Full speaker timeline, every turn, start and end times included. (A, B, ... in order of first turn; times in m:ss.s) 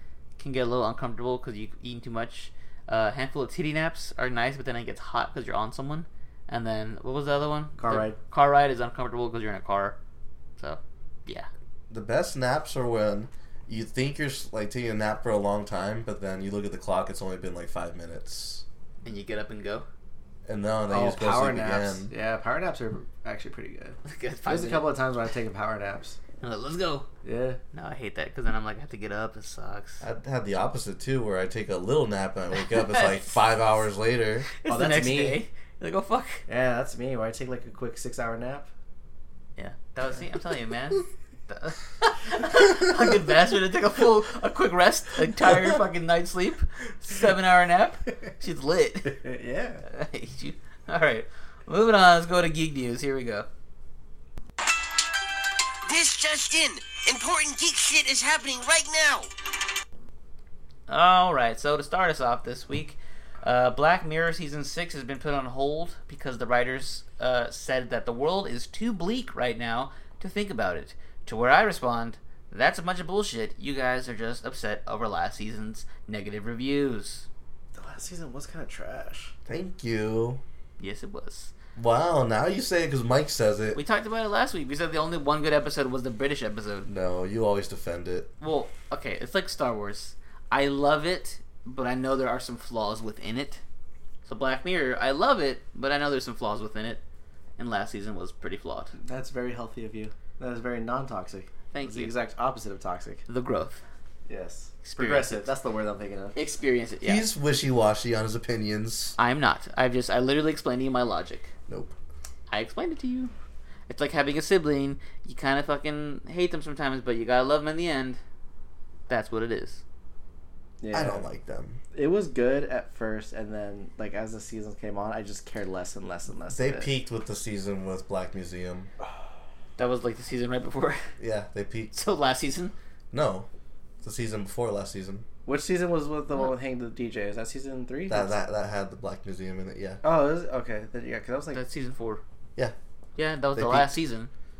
0:00.4-0:10.0 A
0:07.8-0:08.2 B
0:10.6-0:11.5 A
0:11.9-0:18.6 C
0:19.0-0:19.9 A
0:20.5-0:22.1 C
0:20.9-0:26.2 B
0:24.0-0:24.9 A
0:26.4-0:27.1 A
0:27.2-0:27.6 B
0:27.7-0:30.0 A
0:30.0-0:34.5 C
0:32.5-0:33.4 A
0:34.6-0:36.4 A
0:34.7-0:35.4 B
0:36.5-0:38.7 B
0:39.6-0:49.2 A
0:49.1-0:49.8 B
0:49.9-0:53.5 A
0:55.9-0:59.3 D
1:00.9-1:17.3 A
1:17.8-1:19.3 B
1:19.5-1:20.4 C
1:20.8-1:21.5 A
1:21.8-1:23.8 C
1:23.8-1:26.9 A
1:26.9-1:28.3 C
1:28.4-1:33.6 A
1:34.3-1:37.0 A
1:37.6-1:38.9 A
1:39.0-1:43.2 B
1:41.7-1:42.1 A
1:43.3-1:43.8 A
1:44.3-1:46.4 B
1:44.8-1:45.5 A
1:46.4-1:47.3 A
1:47.0-1:49.2 C
1:49.2-1:51.5 A
1:51.7-1:52.0 C
1:52.5-1:53.3 A
1:53.9-1:58.2 A
1:59.1-1:59.8 A
2:00.8-2:01.3 B
2:00.9-2:01.8 C
2:01.9-2:06.9 B
2:06.5-2:08.9 C
2:09.8-2:11.0 A
2:11.2-2:11.9 C
2:11.9-2:12.7 A
2:13.1-2:13.5 C
2:14.0-2:15.3 C
2:15.5-2:18.4 B
2:18.1-2:20.0 C
2:20.0-2:21.6 B
2:21.5-2:22.2 A
2:23.2-2:24.3 A
2:23.5-2:24.0 C